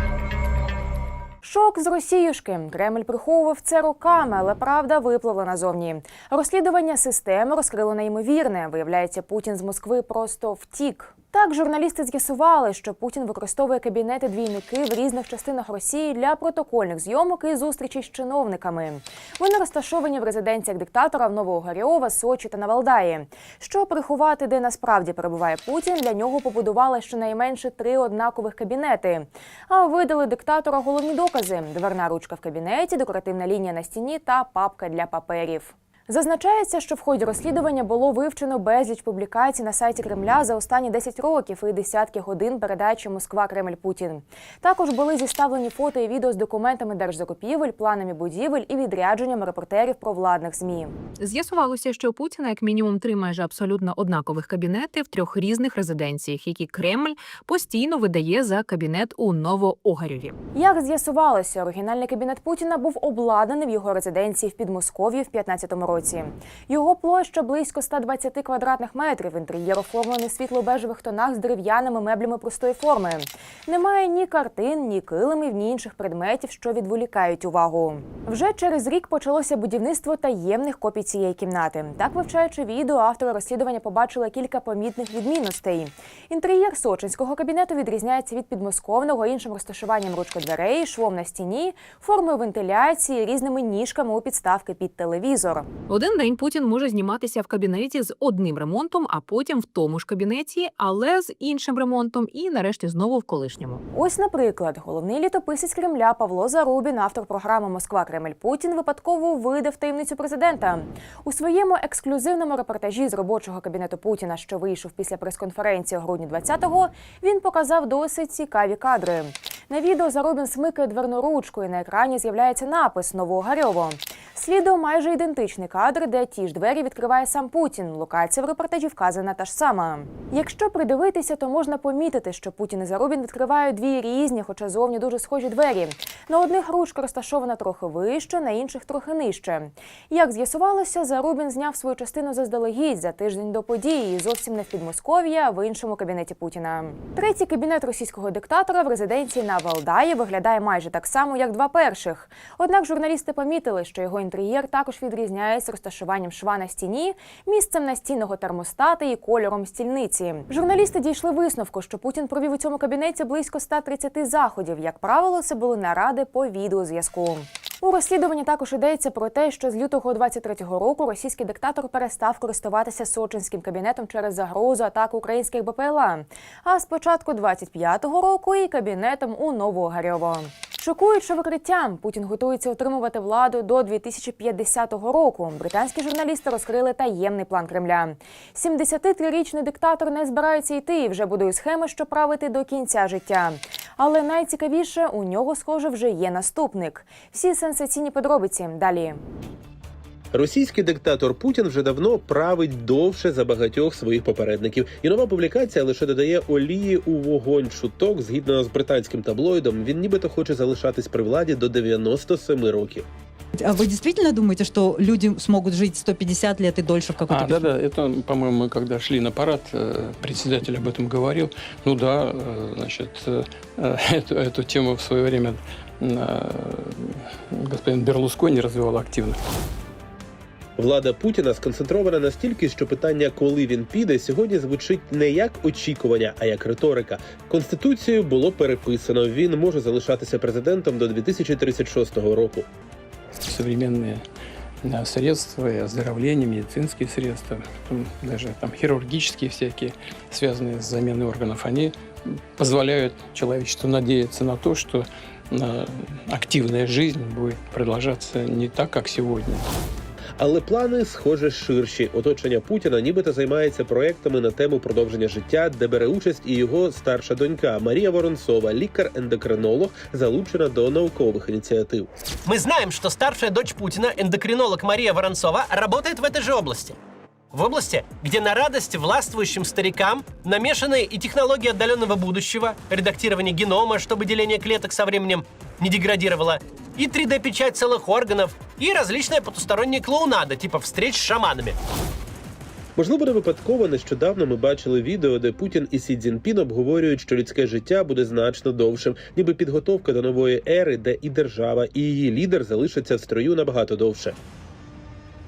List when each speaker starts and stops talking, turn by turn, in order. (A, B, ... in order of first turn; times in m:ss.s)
0:01.4-0:50.9 A
0:51.2-1:00.3 B
1:00.5-1:35.7 A
1:35.9-1:43.8 B
1:43.9-3:19.2 A
3:20.3-3:33.1 C
3:33.6-3:37.7 D
3:37.2-3:49.4 E
3:50.8-4:02.7 C
4:03.5-4:04.2 E
4:04.8-4:12.0 E
4:12.6-4:19.7 E
4:20.4-4:32.1 C
4:32.5-4:37.0 F
4:37.5-4:51.8 F
4:53.0-5:04.4 C